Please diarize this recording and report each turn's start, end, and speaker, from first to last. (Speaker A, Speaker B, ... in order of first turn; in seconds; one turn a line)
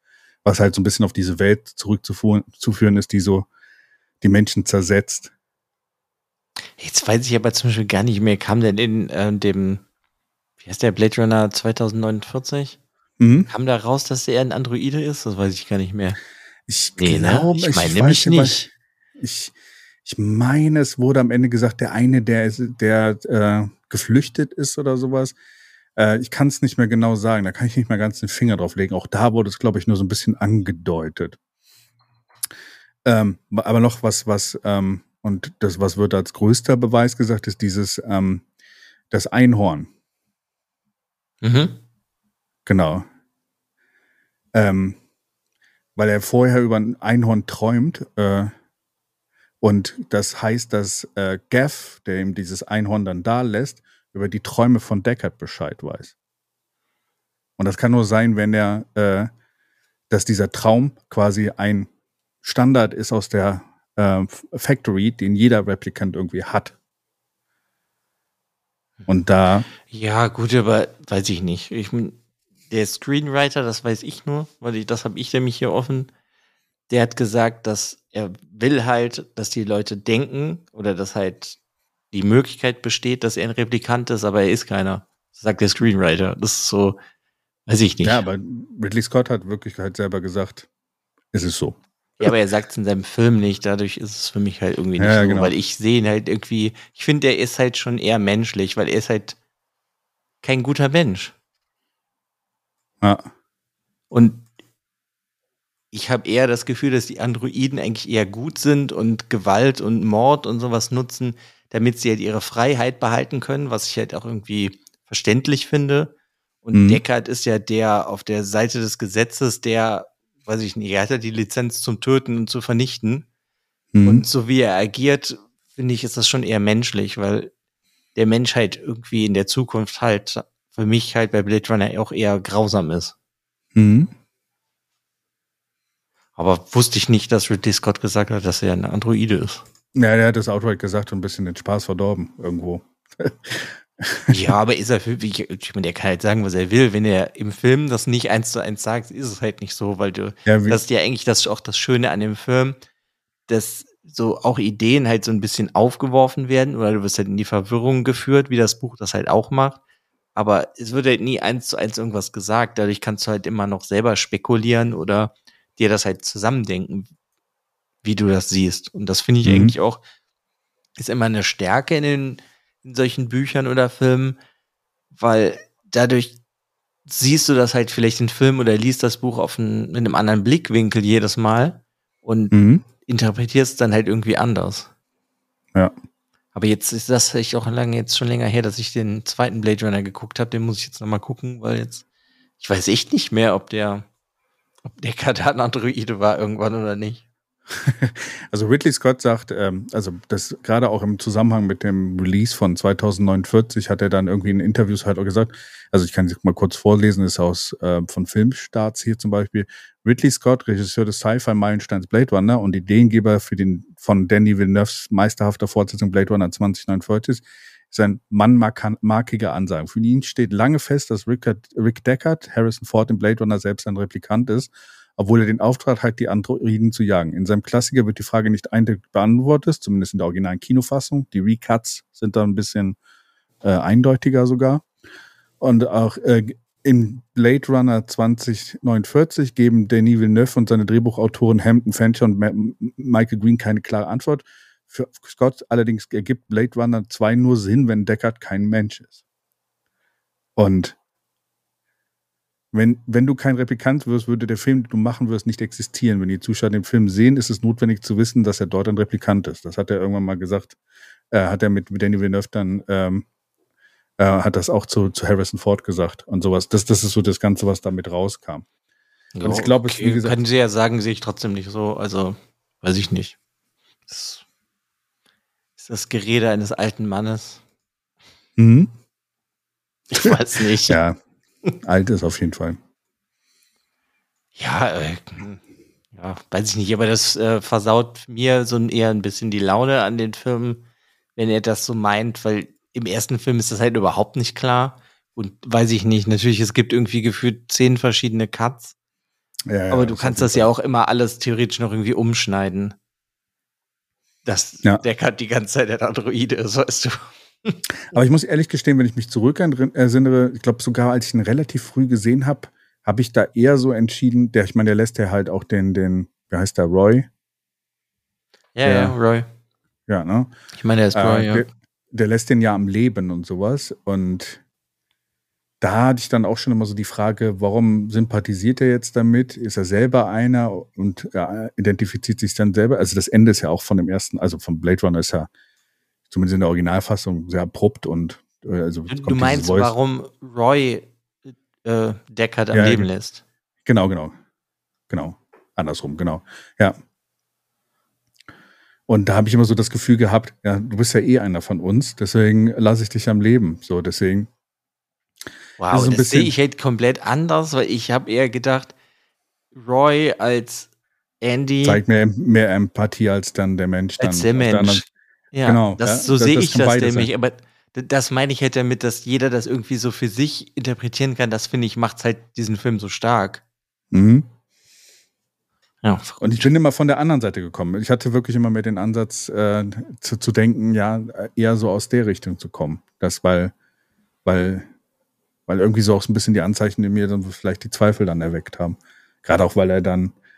Speaker A: 0.4-3.5
Speaker A: 4.2-5.3
Speaker B: 6.8-9.8
Speaker B: 10.6-12.8
Speaker A: 13.2-13.5
Speaker B: 13.5-16.2
Speaker A: 16.7-18.6
Speaker B: 17.0-18.7
Speaker A: 19.2-19.5
Speaker A: 20.0-25.3
Speaker A: 26.0-31.4
Speaker A: 33.0-38.4
Speaker A: 39.1-39.9
Speaker B: 41.4-41.8
Speaker A: 42.6-43.1
Speaker A: 44.5-45.0
Speaker A: 46.0-48.5
Speaker A: 49.6-56.1
Speaker A: 57.6-59.3
Speaker A: 60.1-61.9
Speaker A: 62.4-66.7
Speaker A: 69.1-69.7
Speaker B: 69.8-72.2
Speaker B: 72.7-76.1
Speaker B: 76.9-81.6
Speaker B: 82.1-87.0
Speaker B: 87.7-88.2
Speaker A: 88.0-90.7
Speaker A: 91.3-92.3
Speaker B: 92.2-99.4
Speaker A: 95.0-95.5
Speaker B: 100.4-101.3
Speaker A: 103.0-103.3
Speaker B: 104.1-104.5
Speaker B: 105.9-123.2
Speaker A: 116.7-117.0
Speaker A: 123.9-124.2
Speaker B: 124.0-127.5
Speaker B: 128.1-133.1
Speaker A: 133.7-134.1
Speaker B: 136.3-139.6
Speaker A: 139.9-144.3
Speaker B: 144.3-152.8
Speaker A: 150.4-150.8
Speaker B: 153.5-159.8
Speaker B: 160.3-167.1
Speaker B: 168.0-170.0
Speaker A: 169.4-169.8
Speaker B: 171.0-174.4
Speaker B: 175.1-176.3
Speaker B: 177.1-184.9
Speaker A: 182.5-182.8
Speaker B: 186.5-192.0
Speaker B: 192.6-194.1
Speaker B: 194.8-197.2
Speaker A: 197.8-232.9
Speaker A: 233.6-234.8
Speaker A: 235.6-249.2
Speaker A: 250.6-250.9
Speaker A: 252.7-260.8
Speaker A: 261.3-263.2
Speaker A: 264.2-268.6
Speaker B: 269.3-273.4
Speaker A: 269.4-270.4
Speaker B: 274.1-274.4
Speaker B: 275.8-277.6
Speaker A: 278.6-278.9
Speaker B: 280.1-281.0
Speaker A: 280.8-281.2
Speaker A: 281.8-282.8
Speaker B: 284.6-285.6
Speaker B: 286.1-290.8
Speaker B: 291.4-298.9
Speaker A: 299.7-300.7
Speaker B: 299.9-302.9
Speaker B: 304.4-307.8
Speaker A: 308.1-317.3
Speaker B: 318.7-319.5
Speaker A: 318.8-319.1
Speaker A: 320.1-320.5
Speaker B: 320.8-321.6
Speaker A: 321.1-324.6
Speaker A: 325.8-335.5
Speaker A: 336.3-339.9
Speaker B: 339.1-343.4
Speaker A: 342.7-343.1
Speaker A: 343.9-344.3
Speaker A: 345.1-347.0
Speaker A: 349.1-354.5
Speaker B: 355.8-358.9
Speaker A: 355.9-356.5
Speaker B: 359.7-360.9
Speaker B: 361.4-362.0
Speaker A: 361.8-365.0
Speaker B: 364.2-373.6
Speaker A: 365.6-367.3
Speaker A: 374.1-374.5
Speaker B: 376.0-376.7
Speaker A: 376.4-383.7
Speaker A: 384.4-384.9
Speaker A: 385.7-390.3